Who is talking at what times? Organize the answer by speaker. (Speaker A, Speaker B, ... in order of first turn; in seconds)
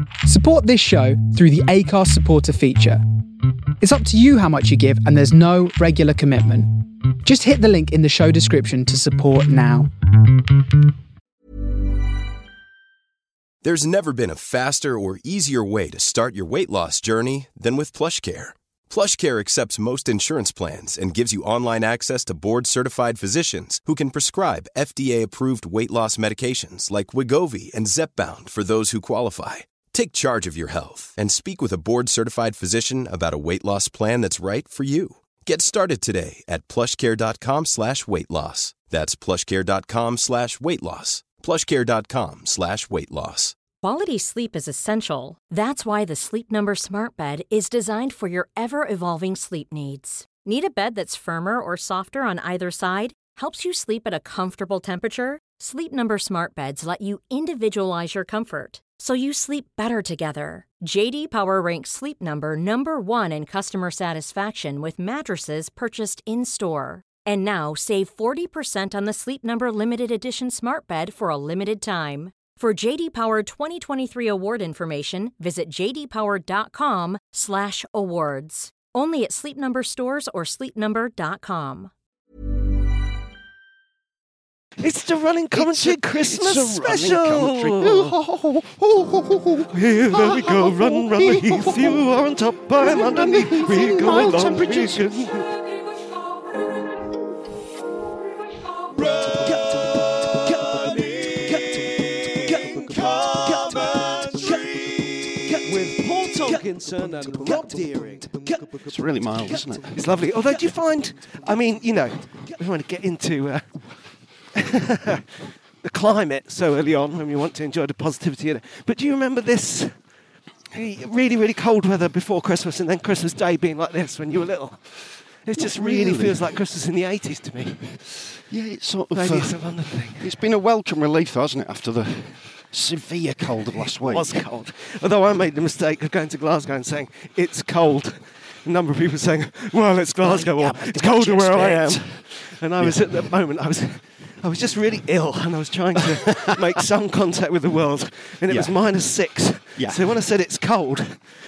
Speaker A: 0.2-3.0, 3.8-9.9
Speaker B: 13.6-43.6
Speaker C: 43.8-81.9
Speaker D: 84.8-88.1, 89.7-95.5, 99.0-108.8, 109.9-113.8, 114.5-115.3, 115.8-119.9, 120.7-124.8, 125.4-127.9, 129.1-130.3, 134.0-151.2
Speaker E: 85.5-92.1, 92.8-95.3, 103.1-104.6, 108.8-110.2, 125.6-126.4, 128.5-134.4, 140.2-142.2, 142.8-143.1, 146.1-146.8, 148.5-148.8, 149.8-150.1